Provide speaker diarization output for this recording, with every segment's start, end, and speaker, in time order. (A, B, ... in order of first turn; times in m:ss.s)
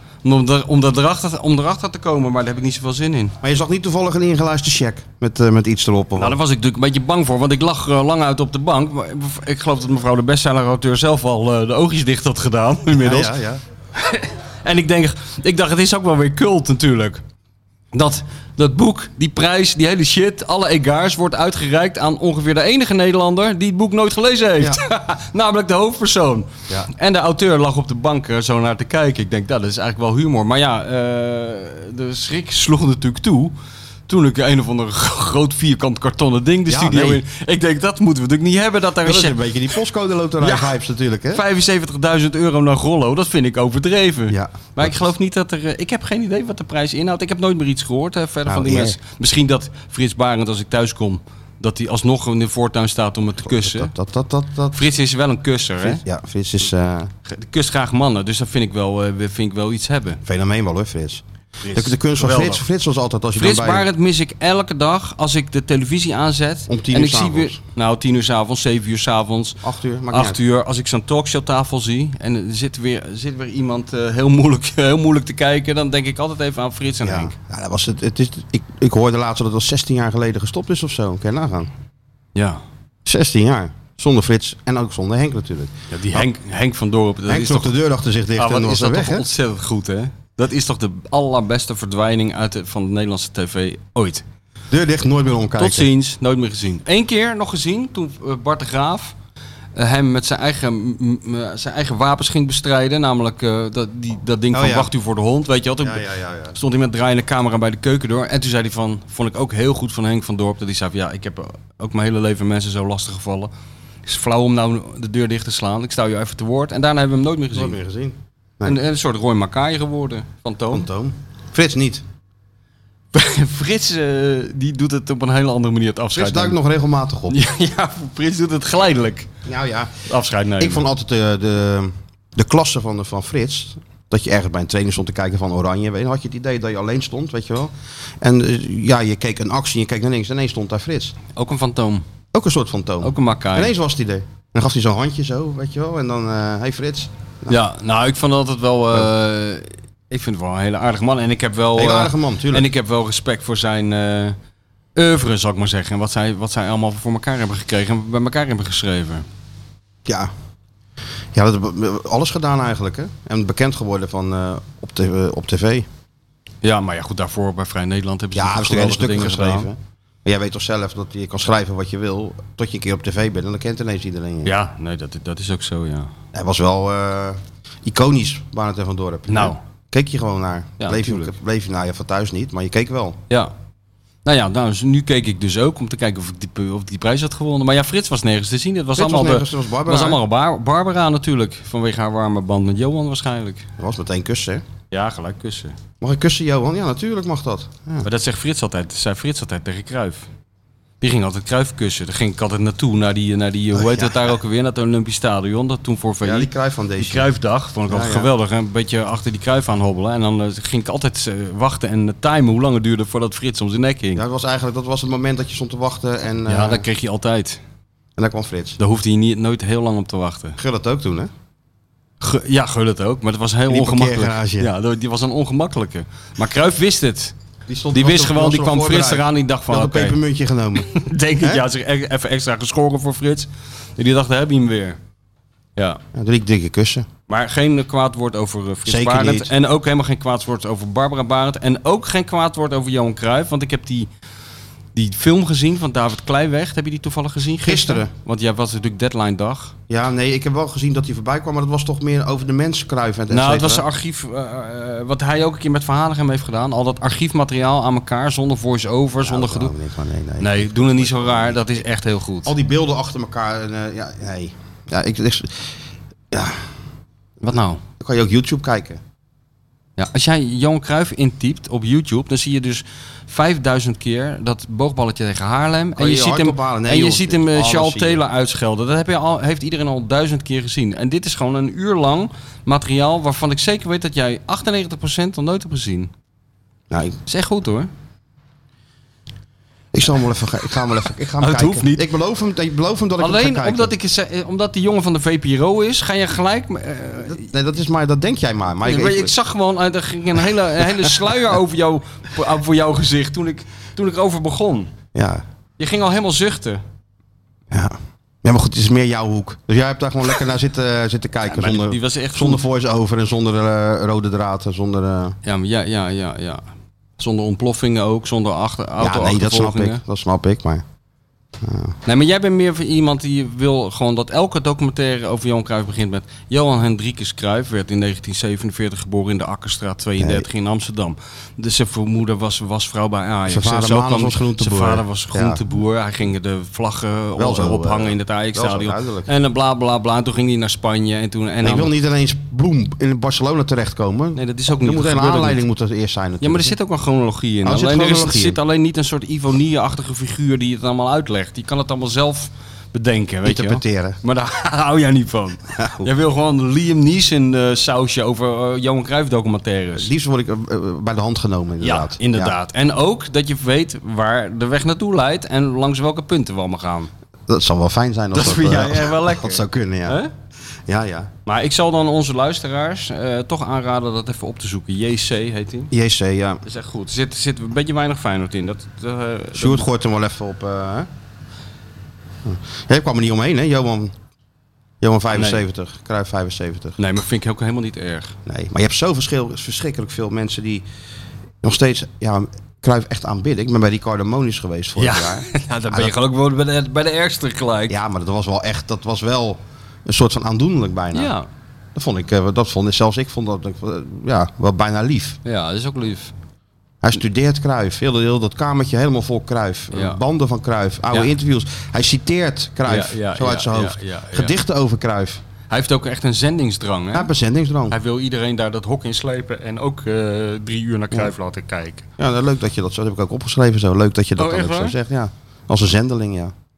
0:00.2-0:03.4 A
0:03.4-0:06.4 B
0:06.2-0:13.3 A
0:12.9-0:13.6 B
0:14.0-0:17.2 A
0:17.9-0:33.5 A
0:34.1-0:39.4 A
0:36.7-0:37.2 B
0:39.0-0:41.4 B
0:40.4-0:40.7 A
0:41.3-0:53.9 A
0:44.3-0:45.0 B
0:48.5-0:49.0 B
0:53.4-0:54.9 B
0:54.7-0:56.0 A
0:55.8-0:57.1 B
0:57.2-1:00.2 A
1:00.2-1:01.2 B
1:01.6-1:02.6 A
1:01.7-1:03.9 B
1:03.4-1:09.6 A
1:06.7-1:07.6 B
1:09.6-1:10.4 B
1:10.1-1:17.3 A
1:17.0-1:21.7 B
1:22.3-1:22.6 A
1:23.0-1:26.3 B
1:25.9-1:27.7 A
1:27.3-1:29.3 B
1:28.4-1:34.2 A
1:34.7-1:35.9 B
1:35.6-1:39.1 A
1:39.8-1:46.0 A
1:44.5-1:44.9 B
1:45.8-1:46.6 B
1:46.5-1:53.5 A
1:54.0-1:57.8 A
1:57.5-1:58.8 B
1:58.6-2:00.9 A
2:00.7-2:02.0 B
2:03.1-2:06.6 A
2:06.1-2:07.4 B
2:07.3-2:09.3 A
2:09.4-2:09.9 B
2:10.1-2:10.8 A
2:10.6-2:21.2 B
2:21.3-2:22.0 A
2:22.3-2:27.6 B
2:23.0-2:23.7 A
2:27.5-2:34.4 A
2:31.7-2:32.7 B
2:35.0-2:39.2 A
2:40.0-2:40.3 B
2:41.3-2:45.9 B
2:46.6-2:49.7 A
2:48.3-2:54.5 B
2:54.4-2:56.1 A
2:56.3-3:03.2 B
2:59.3-2:59.6 A
3:00.8-3:01.3 A
3:04.2-3:13.6 A
3:09.0-3:10.2 B
3:13.8-3:14.6 B
3:14.9-3:15.8 A
3:16.0-3:18.1 B
3:18.0-3:20.3 A
3:21.0-3:34.2 A
3:23.7-3:24.3 B
3:26.2-3:27.3 B
3:27.9-3:28.3 B
3:34.1-3:36.8 B
3:36.5-3:37.6 A
3:38.2-3:38.8 B
3:38.8-3:40.6 A
3:40.6-3:41.3 B
3:42.2-3:47.3 A
3:43.7-3:44.7 B
3:47.7-3:50.9 B
3:47.9-3:50.2 A
3:50.8-3:55.0 A
3:56.1-3:57.0 B
3:57.3-4:04.1 A
3:58.8-3:59.5 B
4:04.9-4:09.7 A
4:07.6-4:08.1 B
4:09.9-4:13.8 B
4:13.3-4:19.7 A
4:19.2-4:21.6 B
4:20.4-4:22.5 A
4:22.4-4:25.7 B
4:26.3-4:26.7 B
4:27.4-4:27.8 A
4:28.0-4:29.0 B
4:30.0-4:46.1 A
4:35.9-4:38.2 B
4:46.9-4:47.2 B
4:47.2-4:47.9 A
4:49.9-4:53.9 B
4:51.4-4:52.0 A
4:53.2-4:57.4 A
4:57.2-4:59.3 B
4:58.8-5:04.9 A
5:05.1-5:05.4 B
5:05.8-5:06.8 A
5:07.7-5:15.4 B
5:11.4-5:12.6 A
5:15.4-5:16.6 A
5:17.2-5:20.0 A
5:19.0-5:20.8 B
5:21.6-5:21.9 B
5:22.0-5:41.9 A
5:30.2-5:30.4 B
5:33.5-5:35.6 B
5:37.4-5:39.3 B
5:41.6-5:46.7 B
5:44.3-5:45.6 A
5:46.4-6:00.1 A
5:47.6-5:48.6 B
5:53.4-5:54.2 B
5:55.8-5:56.1 B
6:00.0-6:02.5 B
6:01.8-6:07.1 A
6:07.5-6:10.2 B
6:08.3-6:10.3 A
6:10.8-6:11.3 B
6:11.4-6:15.9 A
6:15.9-6:16.6 B
6:16.6-6:19.9 A
6:19.5-6:21.1 B
6:22.4-6:24.1 B
6:25.0-6:27.0 B
6:25.3-6:25.6 A
6:27.0-6:28.3 A
6:28.4-6:30.8 B
6:31.6-6:36.1 B
6:35.0-6:38.0 A
6:37.9-6:41.3 B
6:41.1-6:41.5 A
6:41.9-6:45.4 B
6:45.4-6:46.3 A
6:47.0-6:55.4 B
6:49.9-6:50.2 A
6:52.9-6:54.6 A
6:55.7-6:57.3 A
6:57.1-6:57.9 B
6:57.9-7:02.0 A
7:02.2-7:06.5 B
7:04.4-7:05.0 A